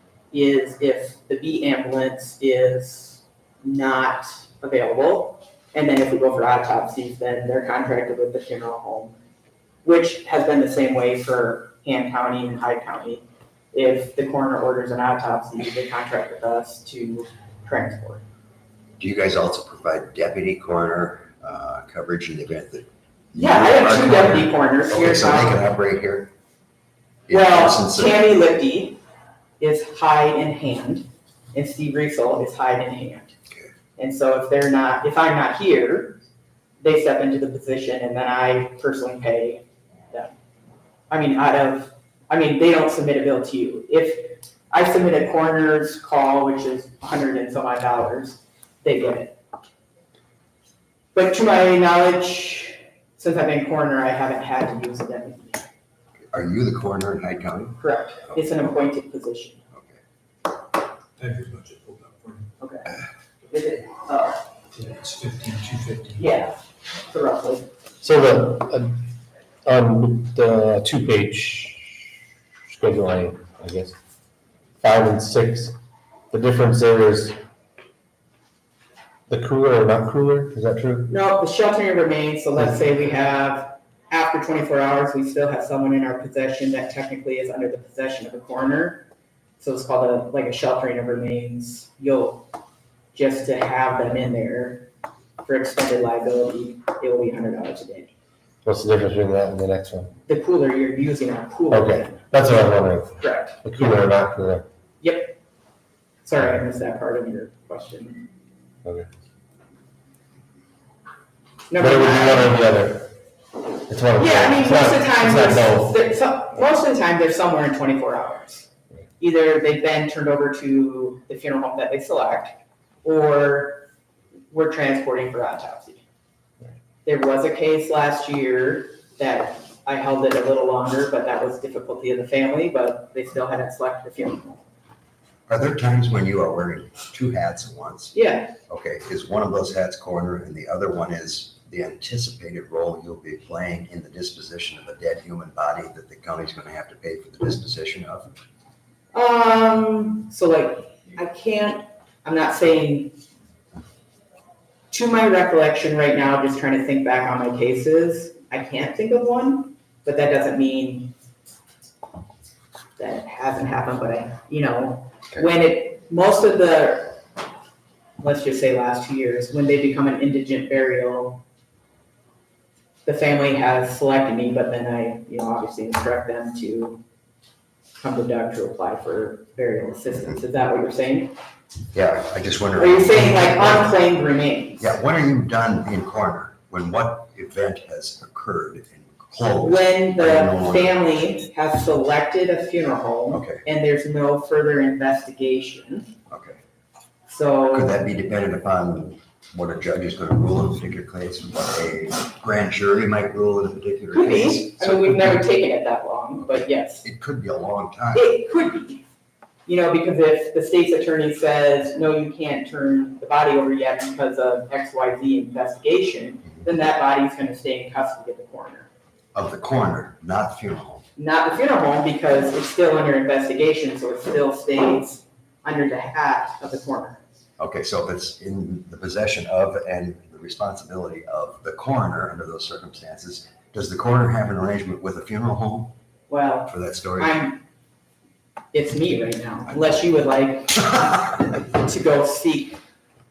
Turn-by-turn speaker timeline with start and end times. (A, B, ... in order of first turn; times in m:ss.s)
0:00.3-0:09.1 A
0:09.8-0:18.2 A
0:19.0-0:26.3 B
0:23.4-0:25.6 A
0:27.3-0:28.2 B
0:27.3-0:29.0 A
0:29.6-0:33.3 A
0:34.0-0:36.2 A
0:36.8-0:40.3 A
0:41.1-0:49.4 A
0:51.1-0:55.6 A
0:56.3-0:57.8 B
0:57.8-0:59.6 A
1:01.2-1:02.4 C
1:02.6-1:02.9 A
1:03.5-1:04.4 A
1:04.7-1:06.2 C
1:06.2-1:07.7 A
1:08.0-1:08.9 D
1:09.6-1:11.8 D
1:12.7-1:13.9 D
1:14.8-1:15.8 D
1:16.3-1:17.4 D
1:19.3-1:21.1 D
1:21.1-1:29.0 A
1:29.6-1:32.4 A
1:33.1-1:34.9 A
1:35.4-1:38.1 A
1:38.6-1:40.1 D
1:40.3-1:44.1 A
1:41.7-1:44.6 D
1:45.0-1:45.4 A
1:46.2-1:48.2 A
1:51.7-1:52.6 A
1:51.8-1:53.1 D
1:53.9-1:56.0 D
1:54.2-1:58.7 A
1:59.2-2:03.8 A
2:04.5-2:06.0 A
2:07.0-2:14.6 A
2:15.5-2:18.1 B
2:18.1-2:18.5 A
2:18.7-2:28.3 B
2:29.1-2:33.2 A
2:34.9-2:41.1 A
2:43.0-2:47.2 A
2:48.2-2:51.4 A
2:53.0-2:57.0 A
2:58.0-3:01.3 A
3:01.9-3:03.9 B
3:02.8-3:04.9 A
3:04.8-3:11.0 B
3:09.6-3:16.1 A
3:13.3-3:13.6 B
3:16.3-3:16.6 B
3:17.3-3:18.0 A
3:17.7-3:25.4 B
3:24.1-3:27.0 A
3:26.4-3:28.3 B
3:28.1-3:29.0 A
3:29.6-3:38.9 A
3:39.3-3:41.0 B
3:41.2-3:47.2 A
3:47.6-3:55.9 B
3:56.3-3:57.6 A
3:56.7-3:57.4 B
3:58.7-4:02.8 A